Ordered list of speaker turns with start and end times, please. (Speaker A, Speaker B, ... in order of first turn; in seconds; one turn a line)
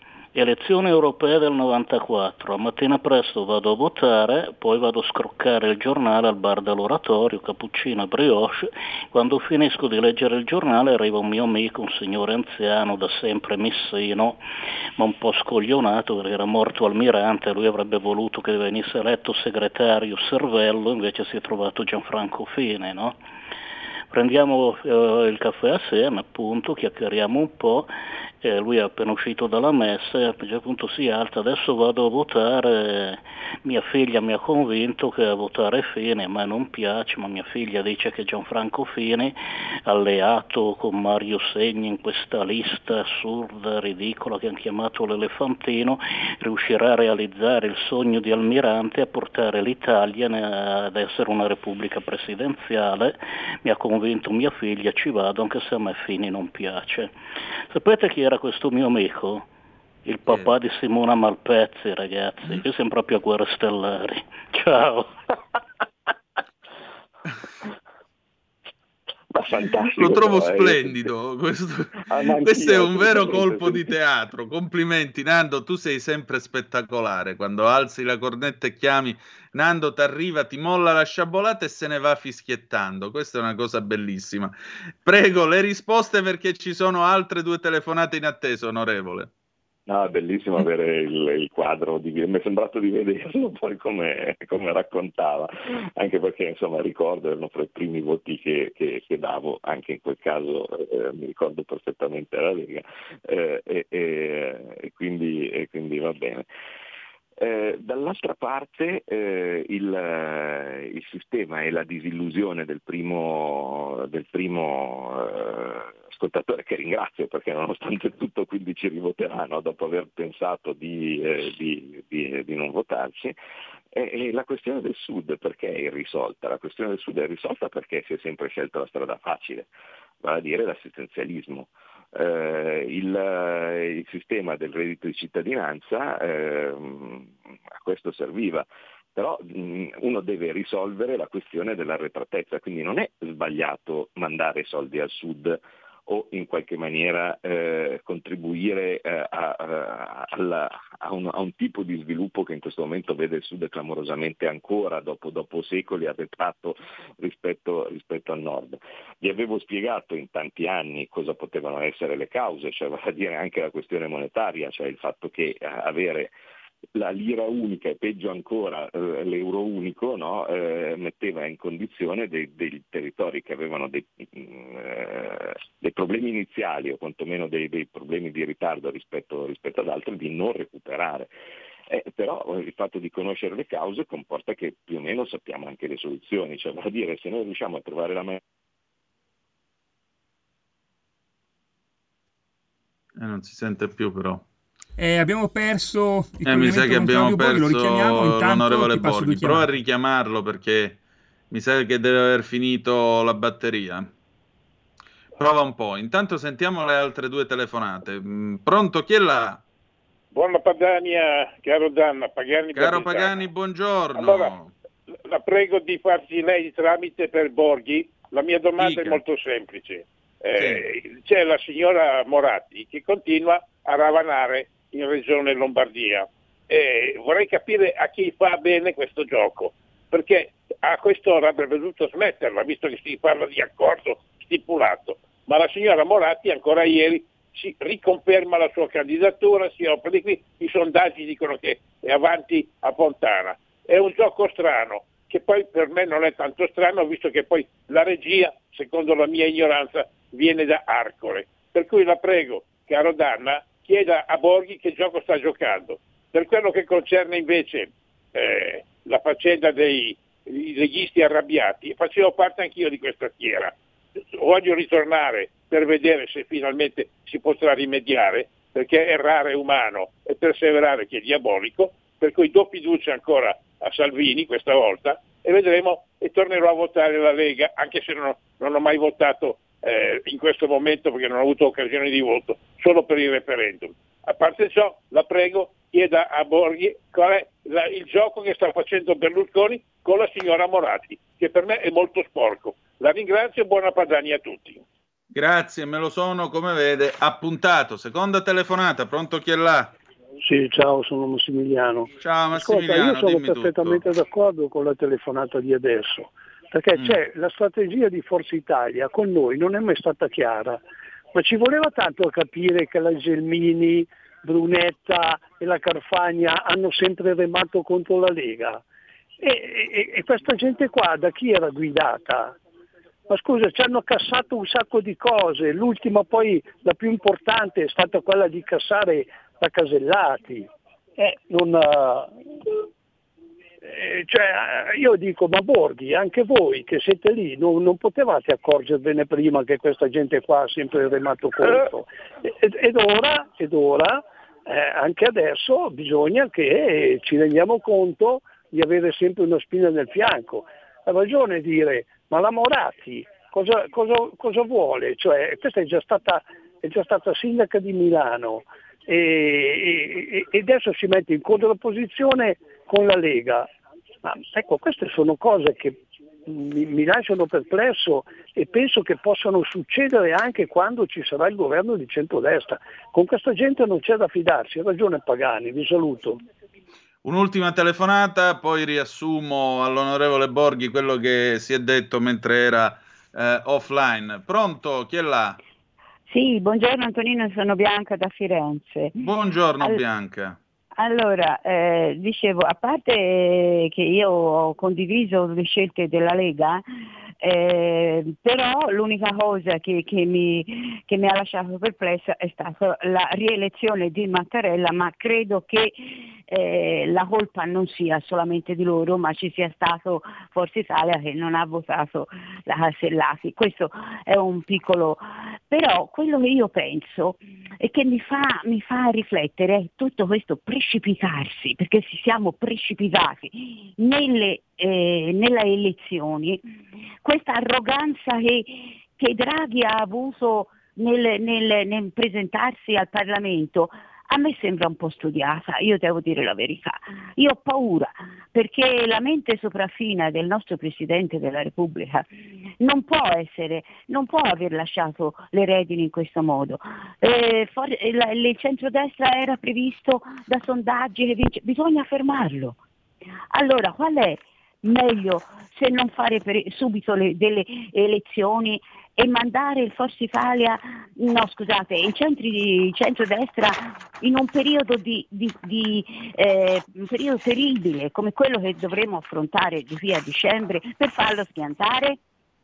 Speaker A: 0.3-14.4
Speaker A: 15.0-23.2
Speaker A: 24.1-27.9
Speaker A: 28.4-57.1
Speaker A: 57.7-59.4
Speaker A: 60.0-65.2
Speaker B: 69.3-71.1
Speaker C: 70.0-89.3
Speaker B: 72.0-73.9
Speaker B: 89.9-106.5
Speaker B: 107.4-123.3
Speaker B: 123.9-129.7
Speaker B: 130.2-166.3
Speaker B: 166.9-181.3
Speaker B: 181.9-188.4
Speaker C: 193.2-194.4
Speaker D: 195.0-199.7
Speaker C: 196.4-201.0
Speaker C: 201.5-204.1
Speaker C: 205.4-209.6
Speaker E: 210.3-213.4
Speaker C: 212.7-214.7
Speaker E: 214.1-214.5
Speaker E: 215.2-263.7
Speaker C: 218.8-219.2
Speaker C: 220.6-220.8
Speaker E: 264.3-294.8
Speaker C: 295.3-299.9
Speaker F: 300.4-310.8
Speaker C: 302.2-304.0
Speaker F: 311.3-318.8
Speaker F: 319.4-322.6
Speaker F: 323.3-332.8
Speaker F: 333.8-363.7
Speaker F: 364.2-376.4
Speaker C: 377.2-385.6
Speaker G: 386.3-389.3
Speaker C: 389.2-390.6
Speaker G: 390.9-396.8
Speaker G: 397.4-426.6
Speaker G: 427.2-442.3
Speaker G: 442.8-452.8
Speaker G: 453.5-472.2